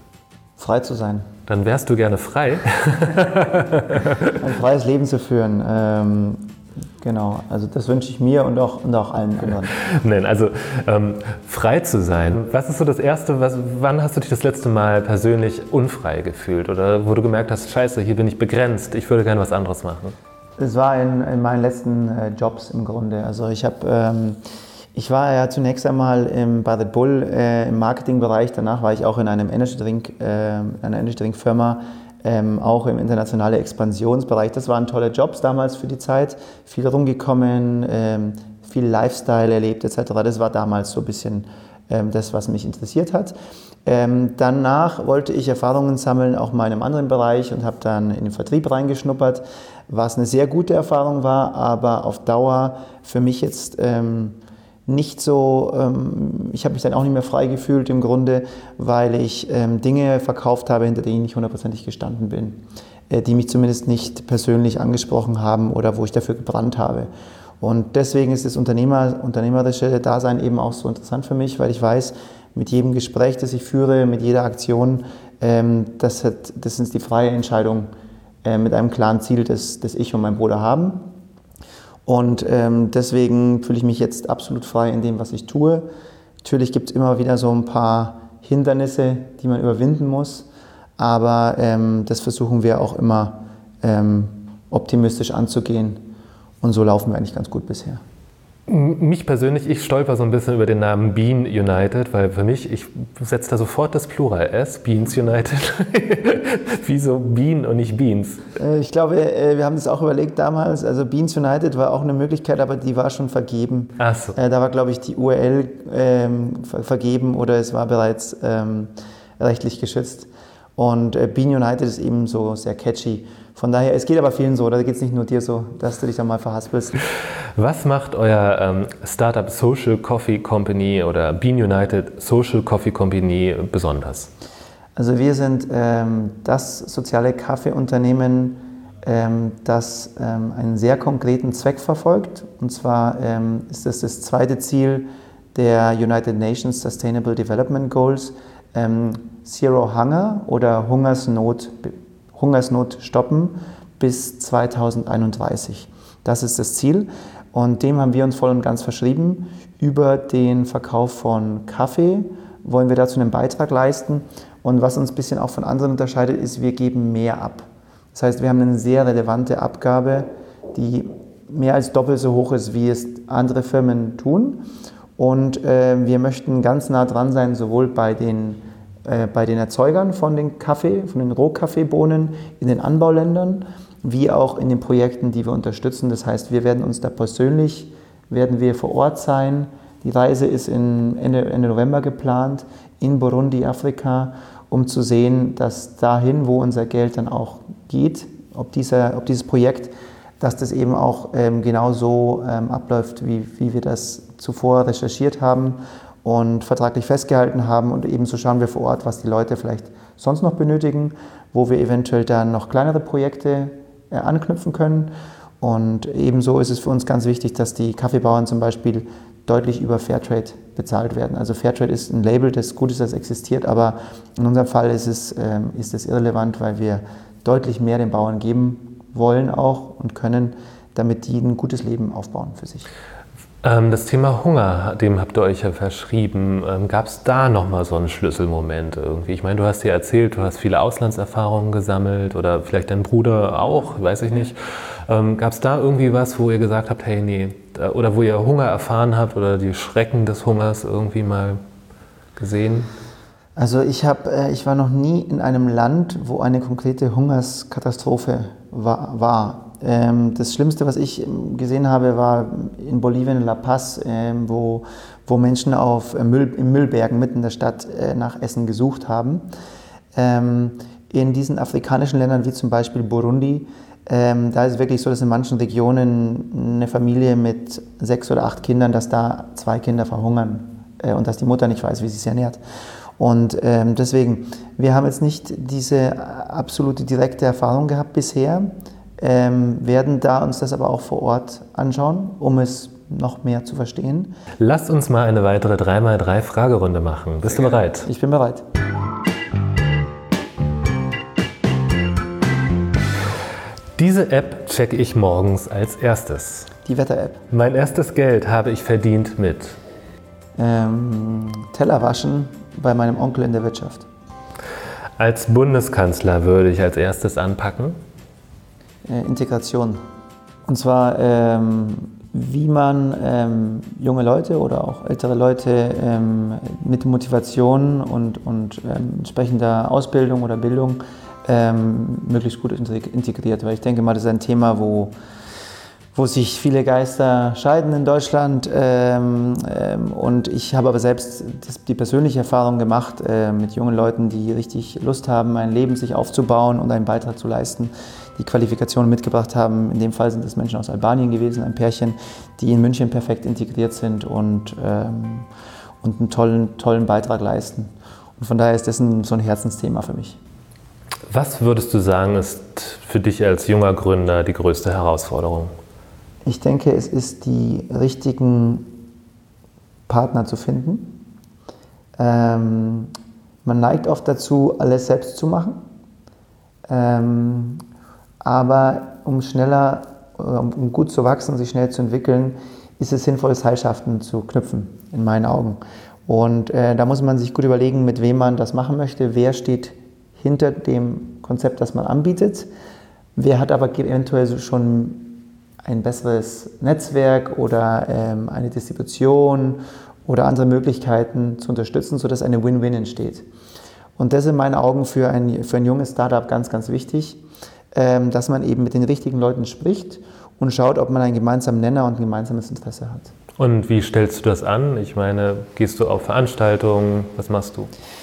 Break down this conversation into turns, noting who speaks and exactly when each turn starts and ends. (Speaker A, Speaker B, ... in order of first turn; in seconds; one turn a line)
Speaker A: 0.6-1.3
Speaker B: 1.5-4.4
Speaker A: 4.4-9.8
Speaker B: 9.7-20.1
Speaker A: 20.6-24.4
Speaker A: 24.9-43.4
Speaker A: 43.9-67.1
Speaker A: 67.6-77.9
Speaker A: 78.4-81.0
Speaker A: 82.1-85.9
Speaker A: 86.4-90.5
Speaker A: 91.0-96.0
Speaker A: 96.6-98.0
Speaker B: 98.7-108.4
Speaker A: 108.6-127.0
Speaker B: 114.0-114.4
Speaker B: 127.6-134.3
Speaker A: 135.0-174.7
Speaker A: 175.2-232.9
Speaker B: 233.6-251.6
Speaker B: 252.4-252.9
Speaker A: 253.6-269.4
Speaker A: 270.1-282.6
Speaker A: 283.2-294.4
Speaker B: 294.6-298.1
Speaker A: 297.5-298.6
Speaker B: 304.0-306.7
Speaker A: 306.9-307.4
Speaker B: 307.5-309.8
Speaker A: 310.6-314.1
Speaker B: 315.2-318.0
Speaker A: 319.1-320.0
Speaker A: 320.7-335.1
Speaker A: 336.1-355.5
Speaker A: 356.0-360.4
Speaker B: 361.3-365.7
Speaker A: 366.4-368.9
Speaker A: 370.1-371.2
Speaker A: 372.2-373.1
Speaker A: 373.6-375.8
Speaker A: 376.9-377.8
Speaker A: 378.4-392.7
Speaker A: 393.4-403.4
Speaker A: 404.2-407.4
Speaker A: 407.9-413.3
Speaker B: 413.6-417.9